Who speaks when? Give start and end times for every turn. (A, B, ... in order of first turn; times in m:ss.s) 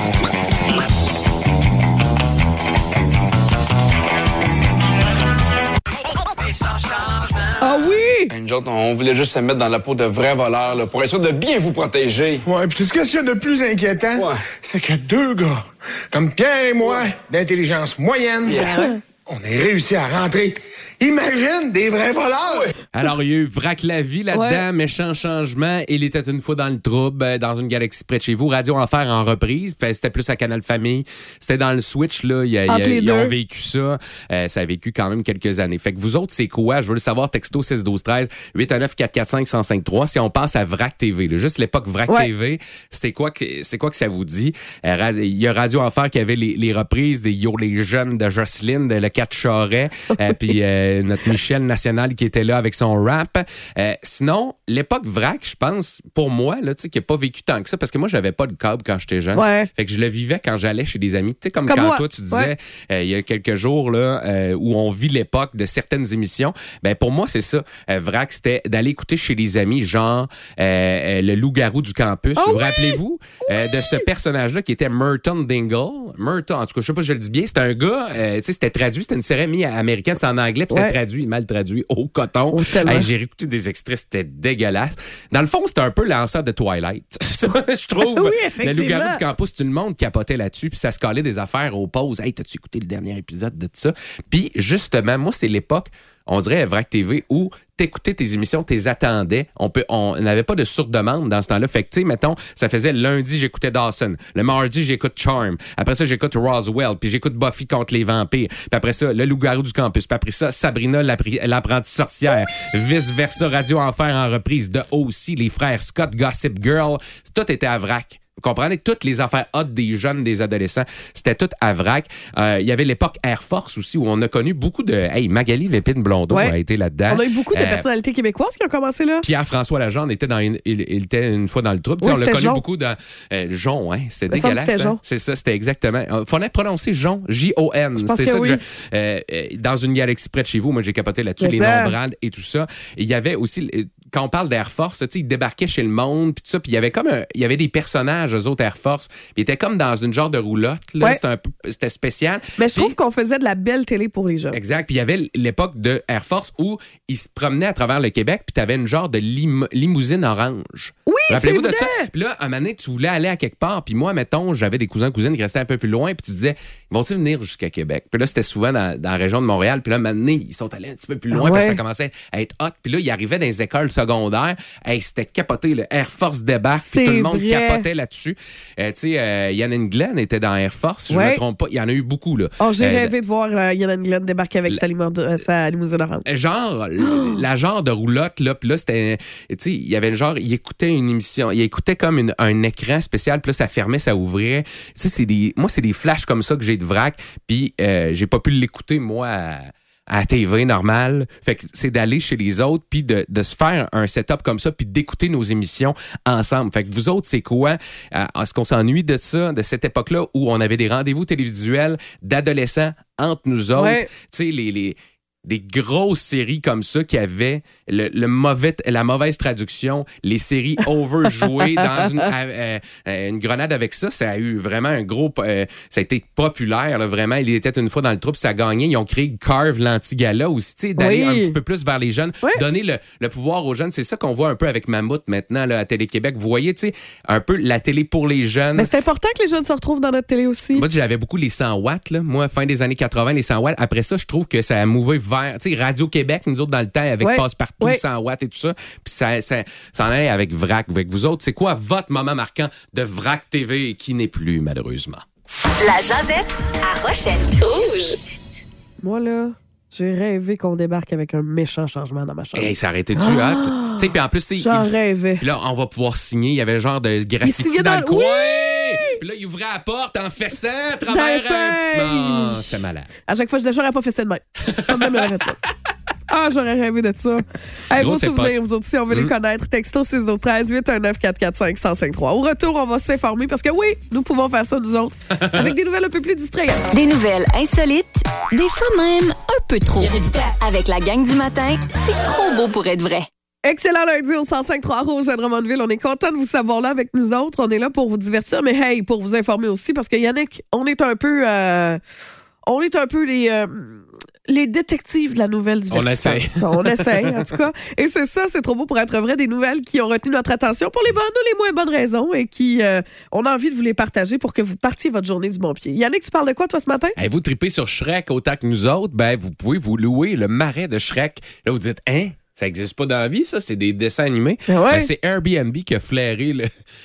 0:07.6-0:08.3 A
0:08.3-0:12.4 B
0:12.4-0:22.7 C
0:14.2-0:14.4 B
0:18.5-0:18.9 B
0:22.9-2:07.9 D
0:24.3-0:24.6 A
0:32.7-0:33.3 A
0:50.1-0:50.4 A
0:59.3-0:59.7 A
1:01.7-1:02.5 A
1:12.4-1:14.0 A
1:20.7-1:21.0 A
1:22.5-1:23.1 A
1:28.0-1:29.2 A
2:07.1-2:09.2 A
2:09.2-2:33.0 D
2:12.0-2:12.6 A
2:14.3-2:15.0 A
2:18.0-2:18.6 A
2:21.4-2:21.9 A
2:32.6-2:34.6 A
2:34.5-3:03.1 D
2:41.1-2:42.1 A
2:51.3-2:51.8 A
2:56.8-2:57.9 A
3:01.1-3:01.4 A
3:02.6-3:06.2 A
3:06.2-3:58.9 D
3:07.0-3:07.4 A
3:33.8-3:34.1 A
3:41.4-3:42.2 A
3:51.0-3:51.6 A
3:58.8-4:00.8 A
4:00.7-4:15.2 D
4:07.2-4:08.0 A
4:15.8-4:18.2 E
4:19.0-4:25.4 A
4:22.6-4:33.1 D
4:27.4-4:29.2 A
4:31.1-4:32.7 A
4:33.3-4:35.6 A
4:34.6-4:35.4 D
4:36.3-4:46.9 A
4:37.9-4:38.6 D
4:45.4-4:45.7 D
4:46.9-4:53.3 E
4:53.6-5:02.0 A
5:02.6-5:17.2 A
5:05.9-5:07.4 D
5:17.2-5:26.7 D
5:24.7-5:25.1 A